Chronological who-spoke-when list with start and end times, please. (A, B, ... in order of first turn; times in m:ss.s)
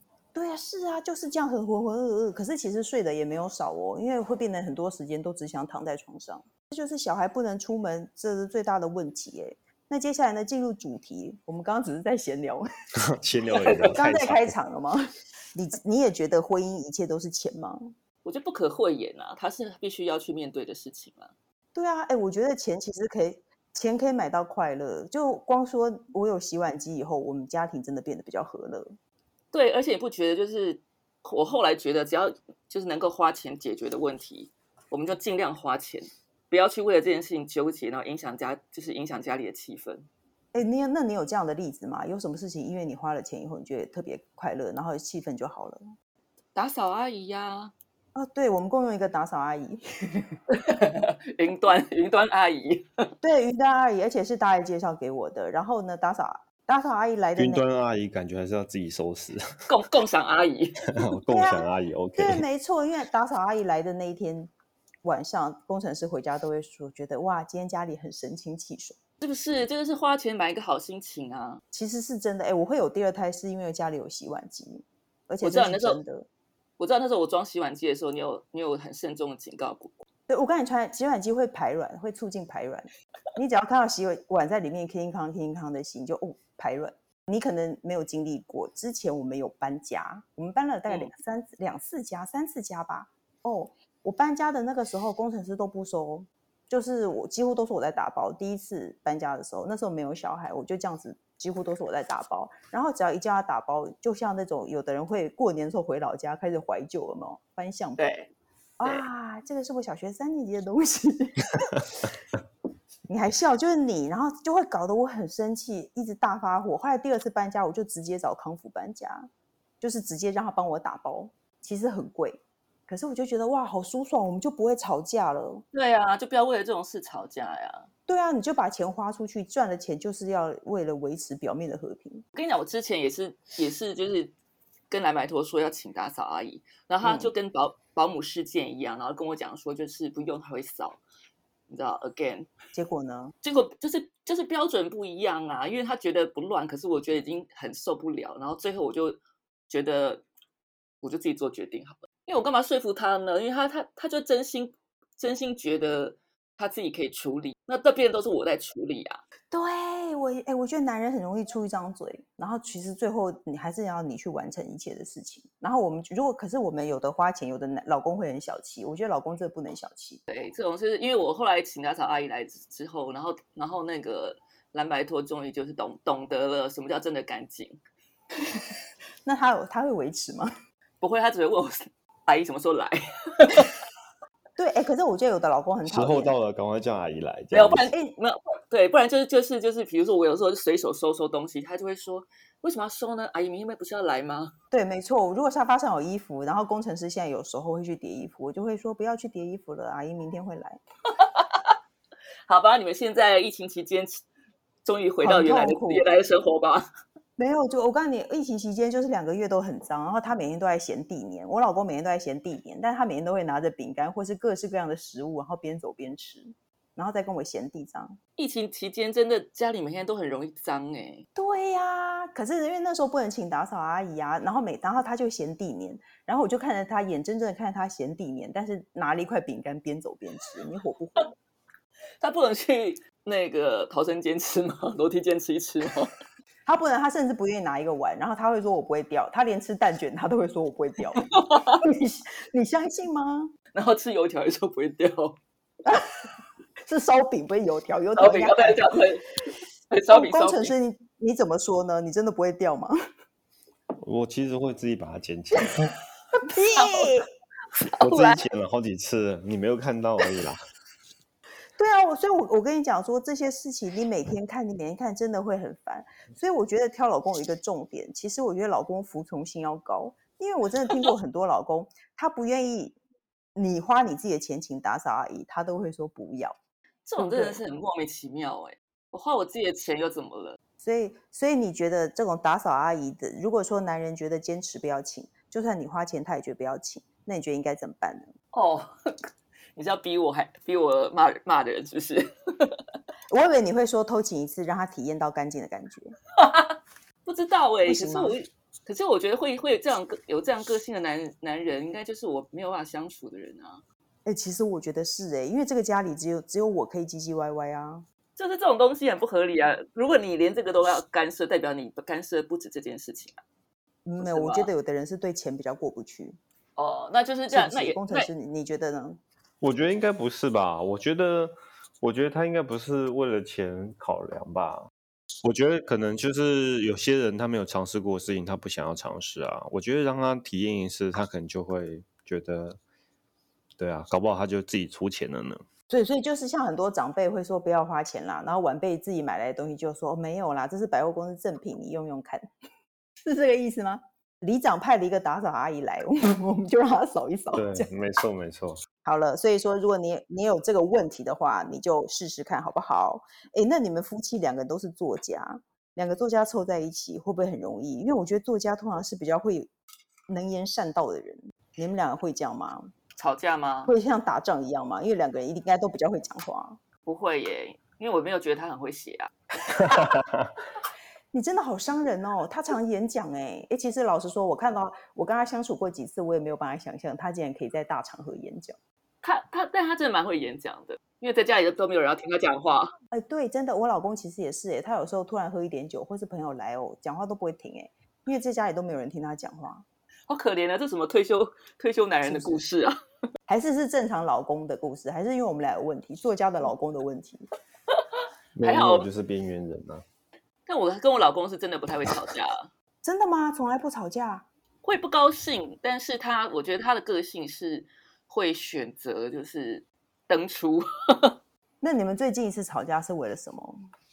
0:00.3-0:12.6 A
0:13.0-0:14.5 B
0:13.6-0:13.9 C
0:13.9-0:15.0 A
0:15.5-0:17.9 A
0:18.2-0:21.3 C
0:21.7-0:29.0 A
0:29.5-0:40.1 C
0:40.5-0:45.8 A
0:46.5-0:47.7 C
0:48.1-0:50.3 A
0:50.5-0:53.0 C
0:53.2-0:57.6 A
0:57.4-0:59.5 B
0:59.7-1:00.8 C
1:00.9-1:02.4 B
1:01.3-1:04.5 A
1:05.0-1:09.0 A
1:09.2-1:11.6 C
1:11.7-1:16.3 A
1:15.4-1:16.0 C
1:16.8-1:20.0 C
1:20.3-1:48.0 A
1:48.0-1:48.3 C
1:48.8-1:51.6 A
1:53.1-1:59.3 A
1:59.8-2:05.6 A
2:05.7-2:07.9 C
2:08.1-2:12.2 A
2:12.3-2:14.3 C
2:14.9-2:21.0 C
2:17.0-2:17.3 A
2:21.7-2:22.5 C
2:22.7-2:23.3 A
2:23.4-2:30.2 C
2:31.0-2:39.2 C
2:39.5-2:50.2 A
2:50.3-2:57.8 C
2:59.2-3:00.5 A
3:01.0-3:03.8 C
3:04.6-3:06.3 A
3:05.8-3:07.9 B
3:07.5-3:14.5 C
3:14.7-3:20.8 A
3:21.2-3:21.7 C
3:22.5-3:24.2 C
3:24.8-3:26.8 C
3:25.2-3:26.0 A
3:27.4-3:38.2 A
3:38.4-3:41.2 C
3:41.4-3:51.3 A
3:52.2-3:56.1 C
3:56.6-4:03.5 A
4:01.2-4:01.8 C
4:03.7-4:05.4 C
4:06.9-4:08.9 A
4:08.2-4:09.3 C
4:09.9-4:10.7 C
4:10.1-4:12.9 A
4:14.0-4:15.9 B
4:16.4-4:17.3 A
4:16.8-4:17.2 C
4:17.9-4:18.4 C
4:18.0-4:20.6 B
4:21.8-4:33.0 A
4:33.5-4:36.6 A
4:37.0-4:40.6 C
4:37.2-4:37.6 A
4:40.8-4:48.3 A
4:48.5-4:49.1 C
4:49.8-4:52.8 C
4:53.3-4:56.2 A
4:56.4-5:03.8 C
4:57.8-4:58.4 A
5:04.2-5:08.0 A
5:08.4-5:13.4 C
5:14.0-5:16.4 A
5:14.2-5:14.7 C
5:16.8-5:18.3 C
5:17.5-5:19.2 A
5:19.6-5:24.9 B
5:25.4-5:32.8 B
5:33.8-5:35.6 B
5:35.9-5:42.4 A
5:43.2-5:47.9 A
5:47.5-5:48.8 B
5:49.0-5:59.7 A
6:00.3-6:02.9 A
6:03.2-6:03.9 C
6:03.9-6:06.8 A
6:07.0-6:09.3 C
6:09.8-6:10.5 B
6:11.3-6:18.8 A
6:19.2-6:22.9 C
6:23.1-6:29.8 A
6:30.3-6:33.0 C
6:32.2-6:32.6 A
6:33.5-6:37.4 A
6:38.6-6:40.0 B
6:38.6-6:39.1 C
6:40.7-6:42.7 C
6:43.0-6:44.5 A
6:44.8-6:51.3 C
6:51.8-6:53.8 A